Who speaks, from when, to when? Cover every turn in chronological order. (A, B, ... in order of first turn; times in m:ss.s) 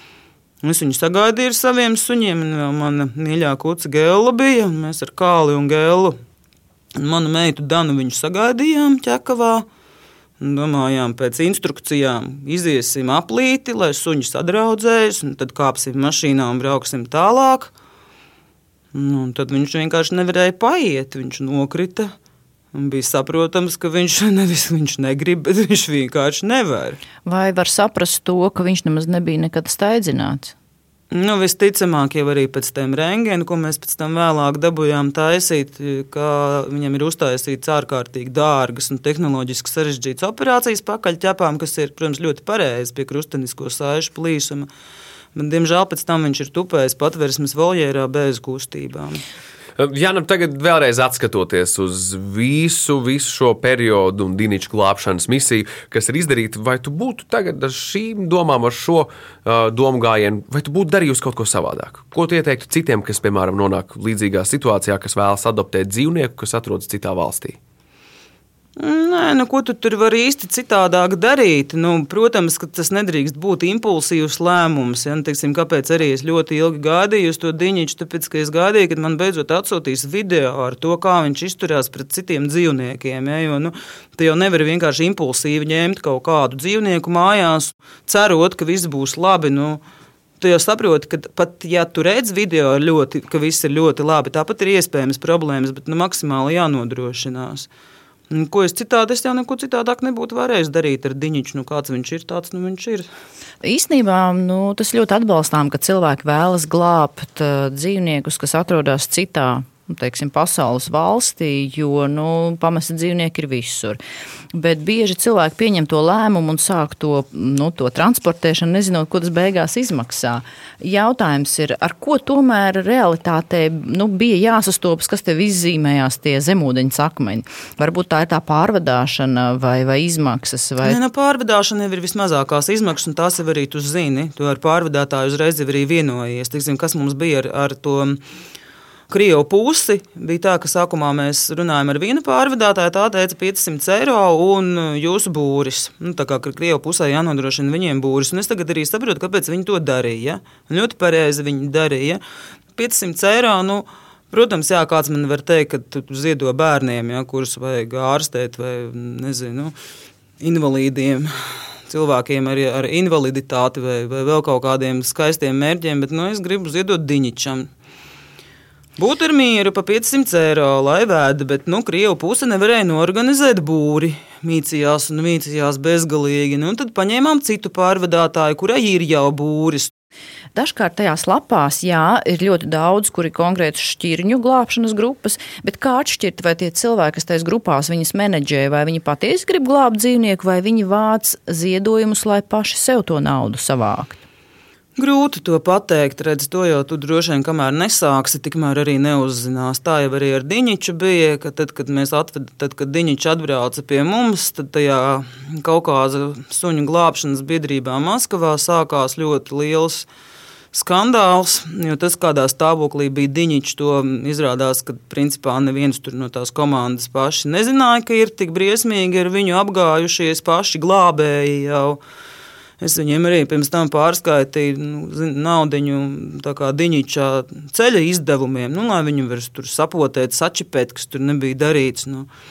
0:00.6-0:06.2 A
0:07.0-0:09.7 A
0:10.4-0:17.7 A
0:18.9-0:22.1 A
0:22.7-0:27.0 A
0:27.3-0:30.5 B
0:31.1-0:44.7 A
0:45.4-0:49.2 A
0:49.8-1:07.6 C
1:08.8-1:29.8 A
1:30.4-1:37.7 A
1:38.3-1:43.1 A
1:43.6-1:54.0 B
1:54.5-2:11.0 B
2:10.8-2:18.2 A
2:19.1-2:32.2 A
2:32.8-2:39.8 A
2:40.4-2:47.7 A
2:49.0-2:59.9 A
3:00.6-3:14.2 B
3:15.0-3:30.1 A
3:30.7-3:42.0 A
3:42.8-3:52.3 A